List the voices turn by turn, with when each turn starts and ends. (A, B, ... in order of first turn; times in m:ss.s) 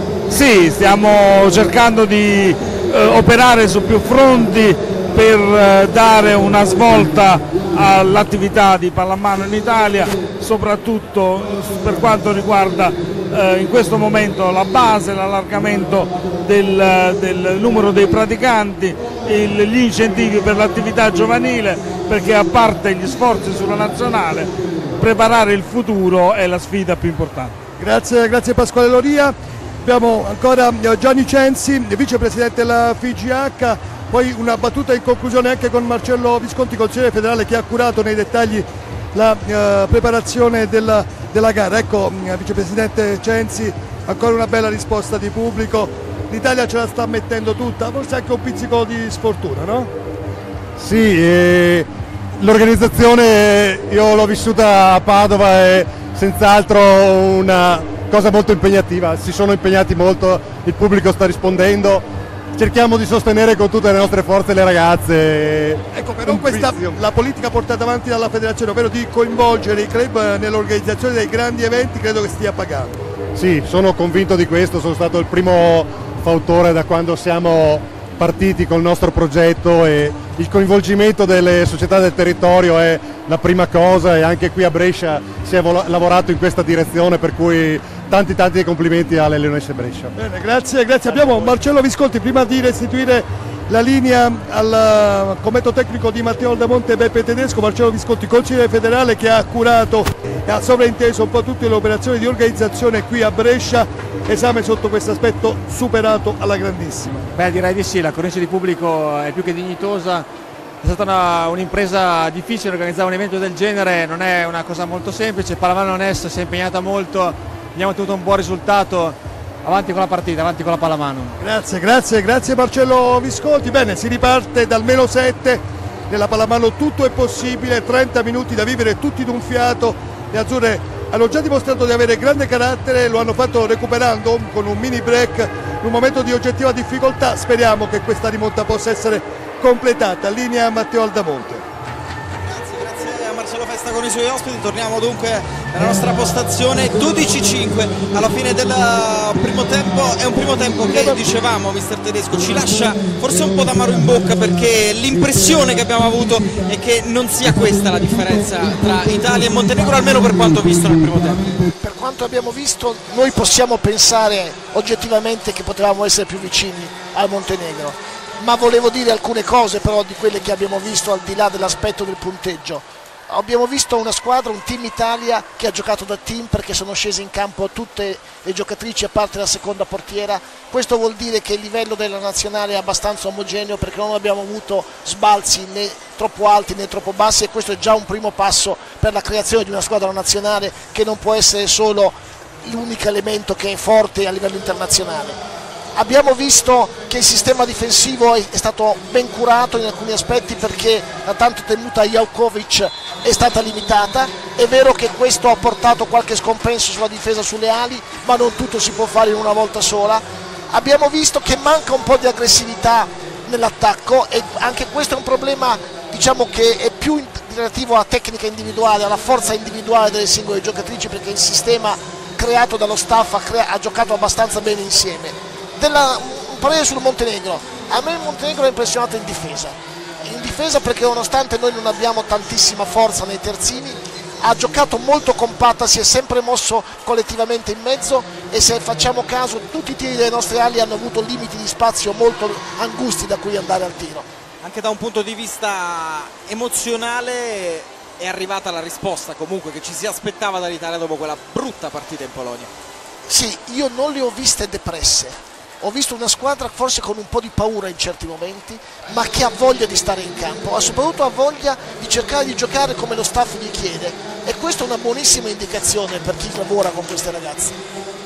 0:00.3-0:27.6 A
0:27.8-0:49.9 B
0:50.8-1:02.0 C
1:02.6-1:07.0 C
1:05.9-1:13.0 B
1:13.4-1:30.1 C
1:30.2-1:47.3 B
1:47.3-1:50.3 D
1:50.8-2:01.4 D
2:01.4-2:21.6 B
2:22.4-2:41.5 E
2:30.9-2:31.2 F
2:41.7-3:15.4 F
3:16.0-4:04.3 F
4:04.6-4:12.7 E
4:13.3-4:27.8 F